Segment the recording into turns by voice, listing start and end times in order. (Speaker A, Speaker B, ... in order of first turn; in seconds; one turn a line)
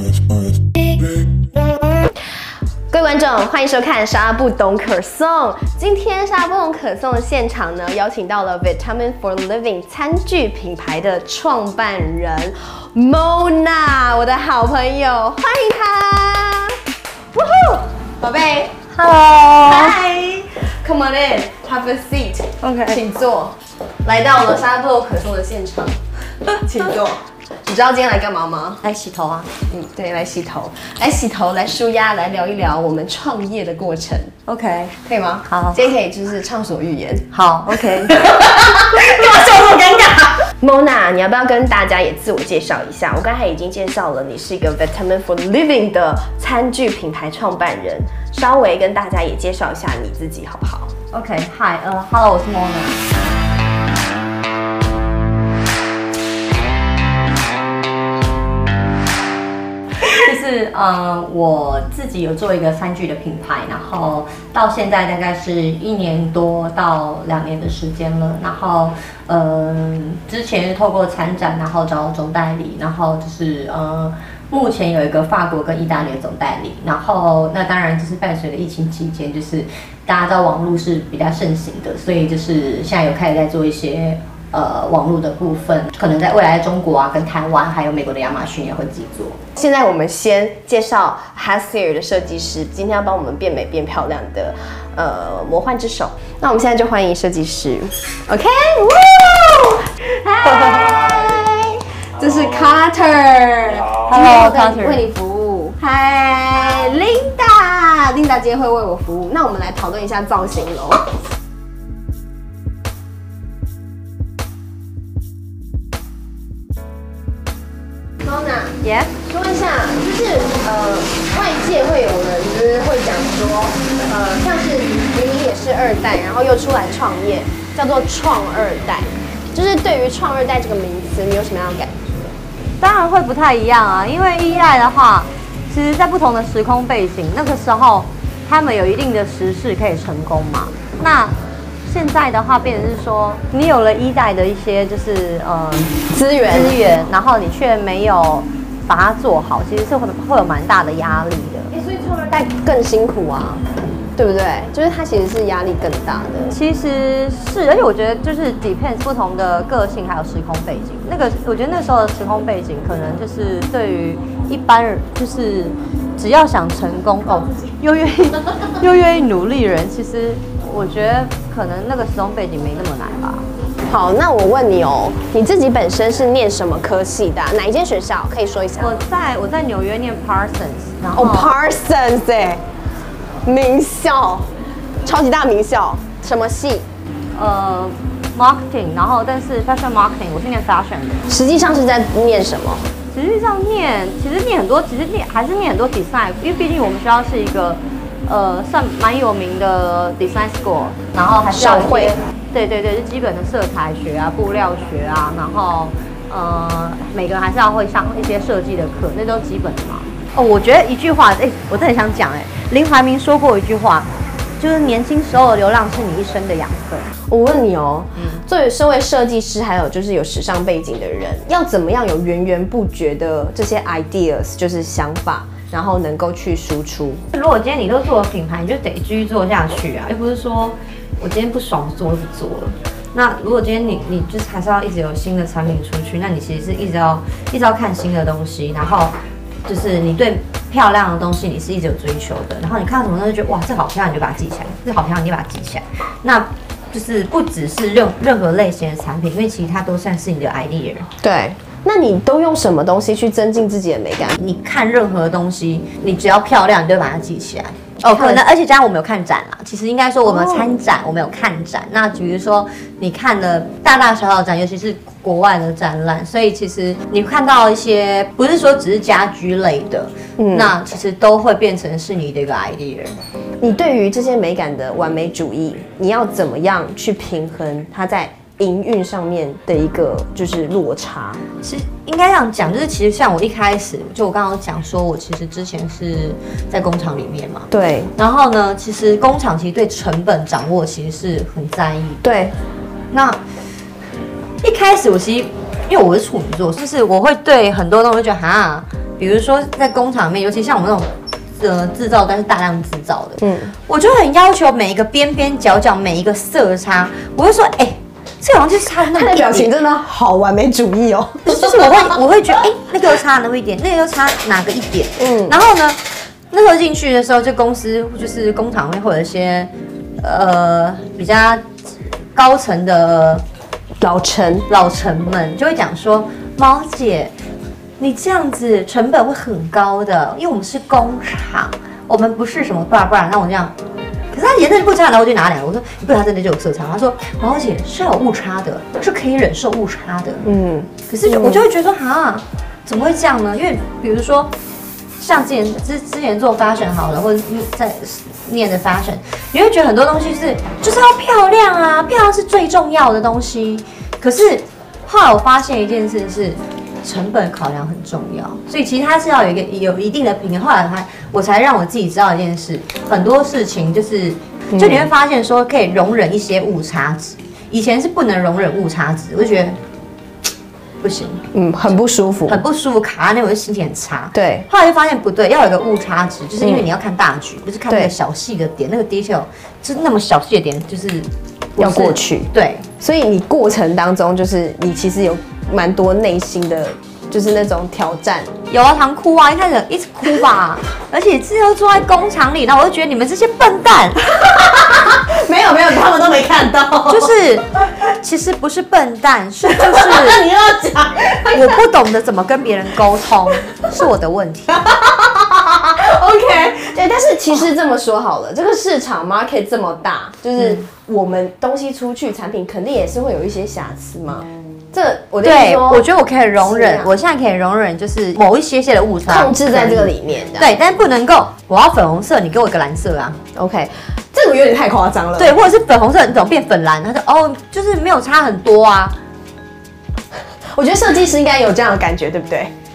Speaker A: 2.9-16.8
Speaker A: 17.4-18.8
Speaker B: 18.9-20.0
Speaker A: 19.7-28.8
Speaker B: 22.6-23.0
Speaker B: 28.8-29.5
Speaker A: 29.7-34.4
Speaker B: 34.5-35.9
Speaker A: 35.0-37.3
Speaker B: 37.3-38.2
Speaker A: 37.9-50.9
Speaker B: 51.1-53.0
Speaker B: 60.0-89.4
Speaker A: 89.6-111.0
Speaker B: 104.1-105.1
Speaker A: 118.2-132.3
Speaker B: 118.8-119.1
Speaker B: 132.8-146.0
Speaker A: 146.1-146.8
Speaker B: 146.5-151.7
Speaker A: 151.7-153.6
Speaker A: 154.2-156.5
Speaker B: 156.5-173.5
Speaker A: 173.9-179.0
Speaker B: 178.8-181.5
Speaker A: 181.2-182.6
Speaker A: 183.5-184.5
Speaker A: 185.0-186.9
Speaker B: 187.4-191.3
Speaker A: 191.3-192.9
Speaker B: 193.1-214.1
Speaker A: 201.5-202.2
Speaker B: 214.6-217.1
Speaker A: 217.3-227.2
Speaker B: 218.2-218.4
Speaker B: 227.3-239.1
Speaker B: 239.7-251.1
Speaker A: 251.2-254.4
Speaker B: 254.4-273.1
Speaker A: 258.0-258.4
Speaker A: 260.3-260.7
Speaker A: 270.4-270.7
Speaker A: 273.6-281.4
Speaker B: 281.6-292.2
Speaker A: 287.7-288.1
Speaker A: 292.2-292.5
Speaker B: 293.1-293.4
Speaker B: 294.6-309.7
Speaker A: 303.4-303.7
Speaker A: 309.1-312.2
Speaker B: 311.4-316.0
Speaker A: 315.2-315.6
Speaker B: 316.5-321.6
Speaker B: 322.4-323.4
Speaker A: 324.0-324.7
Speaker B: 324.7-327.3
Speaker B: 328.0-333.7
Speaker B: 334.3-340.4
Speaker A: 340.4-341.7
Speaker B: 341.1-344.5
Speaker B: 345.2-369.8
Speaker A: 364.7-365.1
Speaker B: 371.0-371.4
Speaker A: 371.5-372.6
Speaker B: 372.5-382.9
Speaker A: 374.3-374.7
Speaker A: 376.6-376.9
Speaker A: 377.9-378.1
Speaker A: 381.8-388.5
Speaker B: 388.7-394.4
Speaker A: 394.4-397.3
Speaker B: 397.1-400.4
Speaker A: 399.7-401.8
Speaker B: 401.5-404.9
Speaker A: 404.8-417.1
Speaker B: 410.6-410.8
Speaker B: 415.4-423.4
Speaker A: 419.3-420.8
Speaker A: 423.6-425.6
Speaker B: 425.4-429.1
Speaker A: 430.7-432.7